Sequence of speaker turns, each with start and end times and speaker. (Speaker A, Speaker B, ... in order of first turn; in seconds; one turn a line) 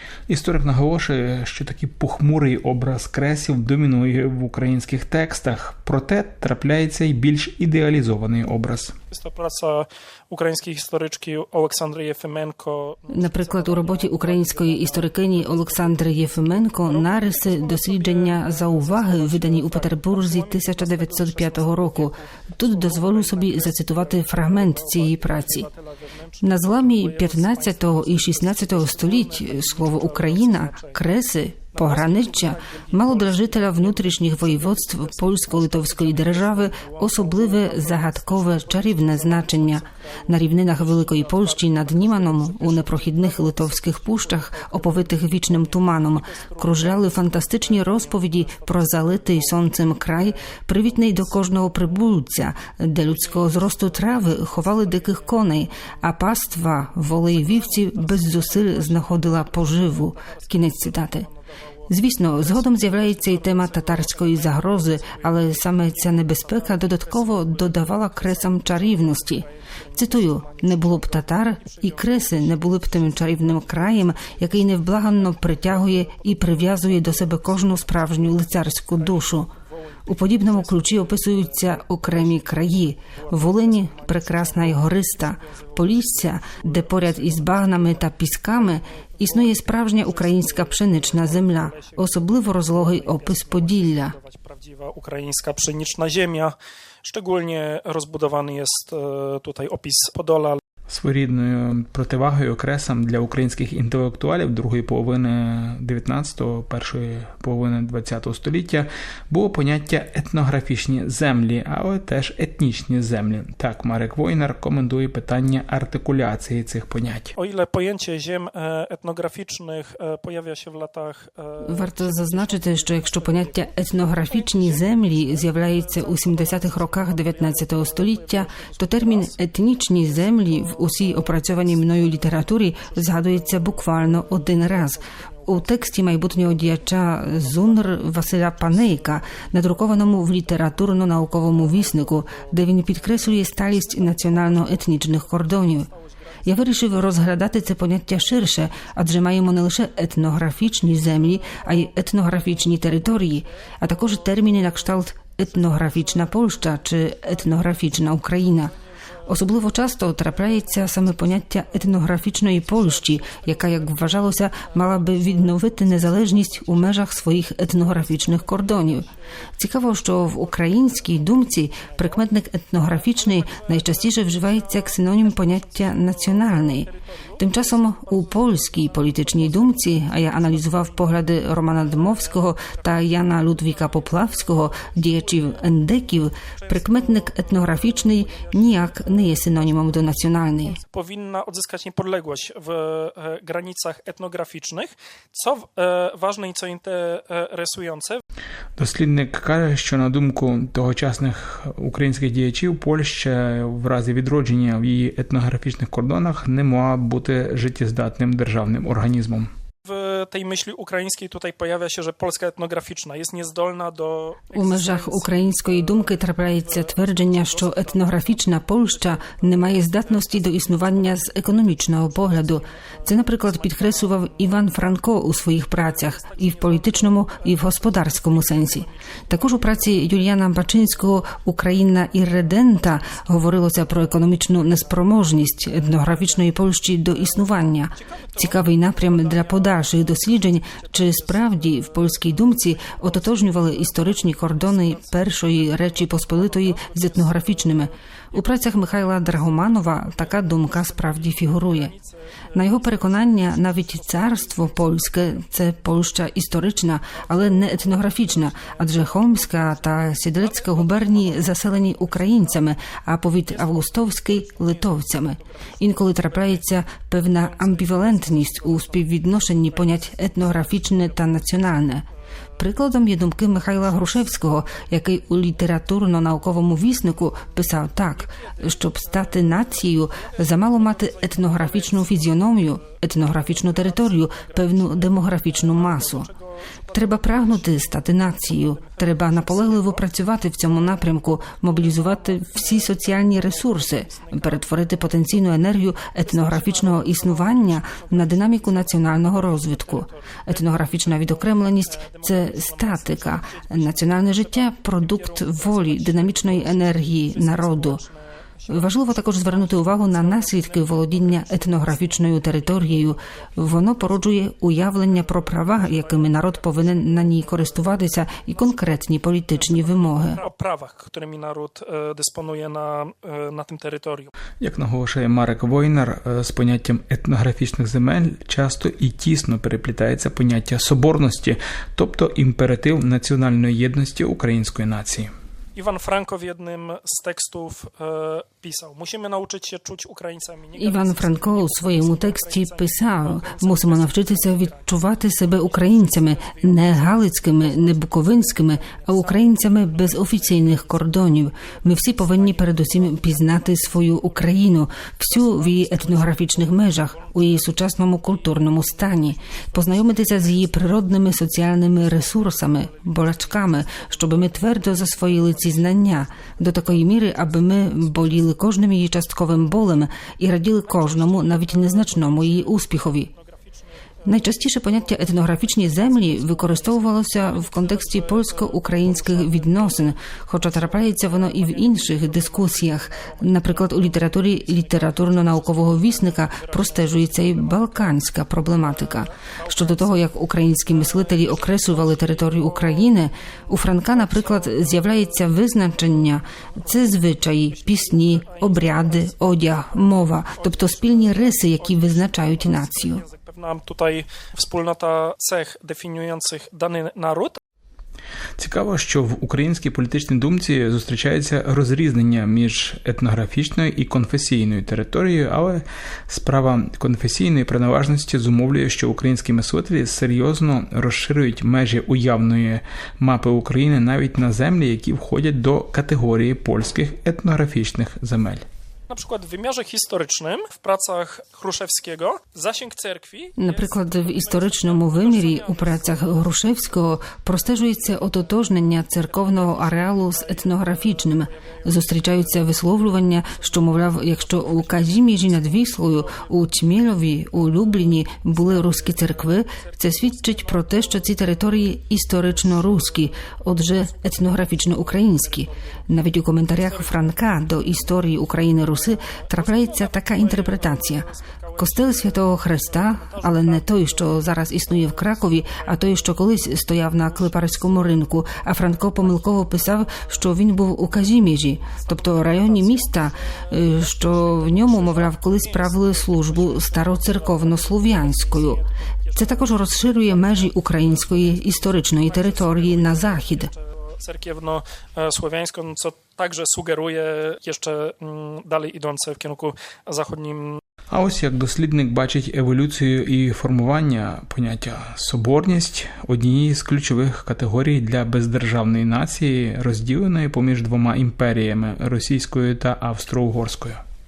Speaker A: 0.3-8.9
Speaker B: 9.1-31.1
Speaker C: 13.1-25.7
Speaker C: 26.4-61.3
Speaker B: 31.7-51.9
Speaker B: 53.0-55.4
Speaker B: 57.3-61.3
Speaker C: 61.9-79.5
Speaker B: 62.0-72.5
Speaker B: 73.3-73.6
Speaker B: 75.2-100.6
Speaker C: 80.1-94.2
Speaker A: 100.9-117.3
Speaker B: 117.4-140.8
Speaker C: 121.6-145.9
Speaker B: 141.3-148.7
Speaker C: 146.5-158.7
Speaker B: 150.6-158.2
Speaker B: 159.2-162.0
Speaker C: 159.3-176.9
Speaker B: 162.5-167.0
Speaker B: 167.6-185.8
Speaker C: 177.4-190.8
Speaker B: 186.4-189.5
Speaker B: 190.8-198.2
Speaker A: 198.8-209.5
Speaker B: 209.8-225.0
Speaker C: 214.5-251.9
Speaker B: 225.7-230.2
Speaker B: 232.8-233.3
Speaker B: 235.6-236.5
Speaker B: 237.1-255.5
Speaker C: 252.5-272.1
Speaker B: 257.1-262.9
Speaker B: 263.5-271.8
Speaker C: 272.6-286.3
Speaker B: 278.2-282.6
Speaker B: 283.3-295.4
Speaker C: 286.9-308.0
Speaker B: 296.2-313.2
Speaker C: 308.7-320.4
Speaker B: 313.8-314.4
Speaker B: 314.9-324.3
Speaker A: 324.6-335.3
Speaker B: 335.8-354.5
Speaker C: 340.8-373.3
Speaker B: 355.1-361.2
Speaker B: 362.1-368.5
Speaker B: 370.8-396.1
Speaker C: 374.3-403.2
Speaker B: 396.8-407.6
Speaker A: 408.6-428.6
Speaker B: 429.1-436.6
Speaker C: 433.6-478.8
Speaker B: 438.1-438.5
Speaker B: 439.2-442.7
Speaker B: 443.4-446.8
Speaker B: 448.5-453.3
Speaker B: 455.2-455.8
Speaker B: 456.7-458.1
Speaker B: 458.9-466.6
Speaker B: 467.2-470.5
Speaker B: 471.8-490.8
Speaker C: 479.4-483.7
Speaker A: 491.1-504.0